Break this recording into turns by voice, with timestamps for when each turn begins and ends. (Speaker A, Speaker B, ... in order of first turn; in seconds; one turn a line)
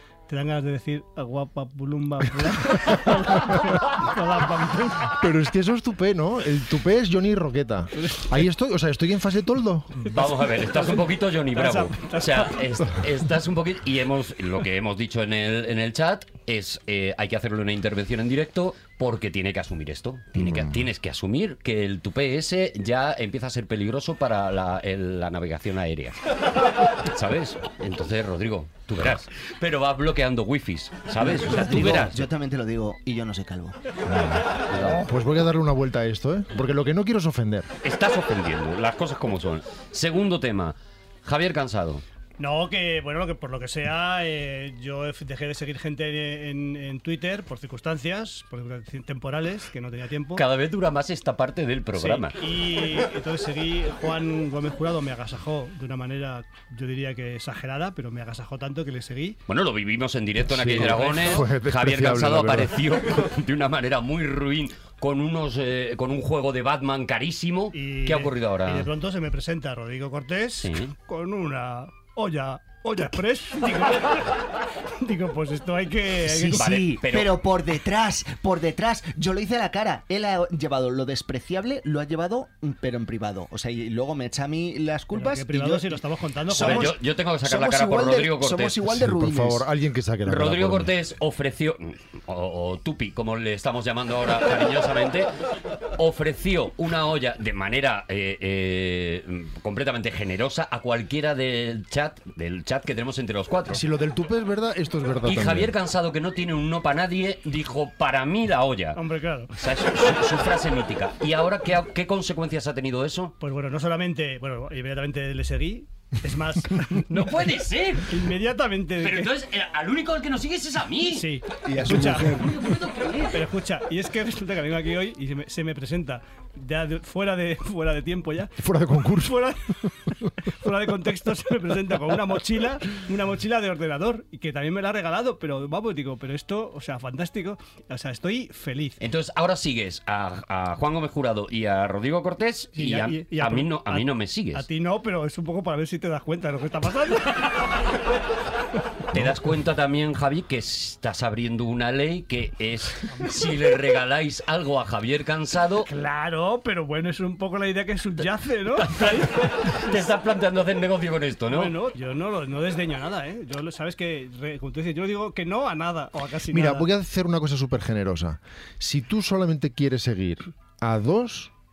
Speaker A: 0.3-5.2
Speaker B: 5.2-10.0
Speaker A: 8.0-8.2
Speaker C: 10.0-32.2
Speaker A: 11.5-12.6
Speaker B: 20.4-20.8
Speaker D: 31.2-33.8
Speaker B: 34.1-37.7
Speaker C: 34.7-35.1
Speaker C: 37.8-42.0
Speaker A: 42.4-50.4
Speaker C: 50.4-52.3
Speaker A: 52.0-59.4
Speaker C: 59.5-68.9
Speaker B: 60.4-62.8
Speaker A: 60.9-61.4
Speaker A: 67.7-74.4
Speaker C: 70.6-70.9
Speaker A: 75.0-76.6
Speaker D: 76.2-89.7
Speaker C: 76.6-77.4
Speaker A: 85.1-86.9
Speaker C: 86.5-88.8
Speaker B: 88.9-90.9
Speaker C: 90.2-95.3
Speaker C: 96.0-103.8
Speaker B: 103.7-105.7
Speaker C: 105.2-109.0
Speaker A: 109.0-109.6
Speaker C: 109.6-113.3
Speaker A: 113.4-117.3
Speaker C: 117.1-118.2
Speaker A: 118.1-119.3
Speaker C: 119.0-121.2
Speaker A: 121.1-122.5
Speaker D: 121.6-122.7
Speaker C: 122.1-123.3
Speaker A: 123.3-128.6
Speaker B: 128.6-129.6
Speaker A: 129.2-129.6
Speaker A: 130.4-139.0
Speaker C: 139.0-144.7
Speaker A: 142.8-147.8
Speaker C: 149.1-155.9
Speaker A: 155.8-160.0
Speaker C: 158.8-161.8
Speaker A: 161.5-166.9
Speaker B: 166.5-171.5